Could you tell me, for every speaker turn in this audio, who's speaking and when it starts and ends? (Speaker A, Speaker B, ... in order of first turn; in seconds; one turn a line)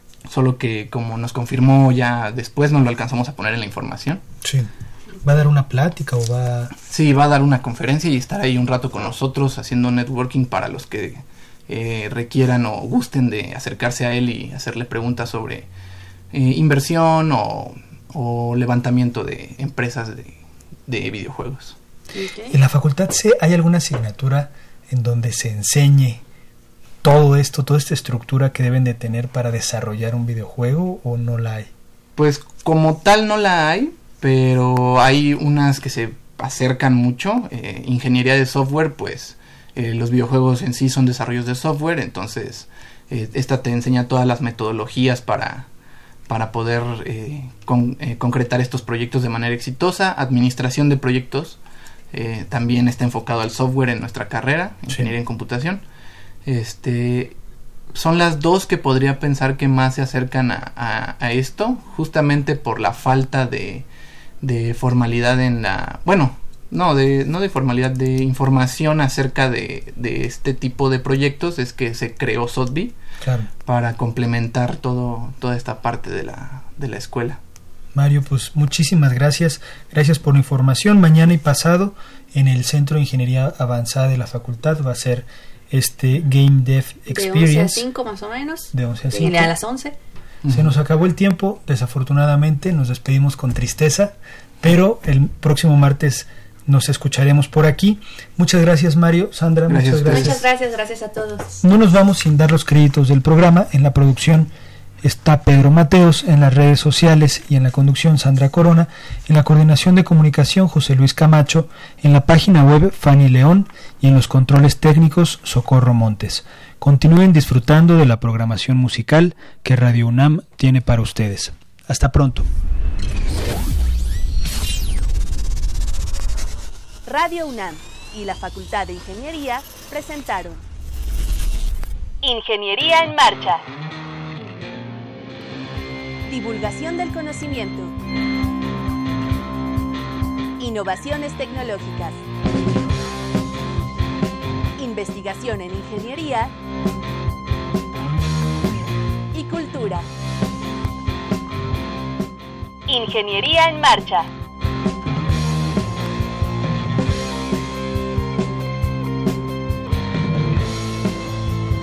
Speaker A: 0.3-4.2
Speaker B: 4.4-4.7
Speaker B: 5.2-6.7
Speaker A: 6.8-15.7
Speaker A: 16.3-21.8
Speaker C: 22.1-22.6
Speaker B: 22.5-26.2
Speaker B: 27.0-31.7
Speaker A: 32.2-45.7
Speaker A: 46.3-51.6
Speaker A: 52.1-55.8
Speaker A: 56.5-57.4
Speaker A: 57.9-63.9
Speaker A: 64.4-73.0
Speaker B: 73.2-73.5
Speaker A: 73.6-77.4
Speaker B: 77.9-87.9
Speaker C: 87.1-90.0
Speaker B: 88.7-89.5
Speaker A: 90.4-90.7
Speaker B: 90.5-100.4
Speaker A: 99.7-100.4
Speaker C: 100.0-101.5
Speaker B: 101.6-104.5
Speaker B: 105.0-122.5
Speaker C: 127.1-130.6
Speaker C: 132.2-133.6
Speaker C: 136.3-137.9
Speaker C: 140.6-142.2
Speaker C: 144.8-146.5
Speaker C: 149.3-150.1
Speaker C: 152.9-154.3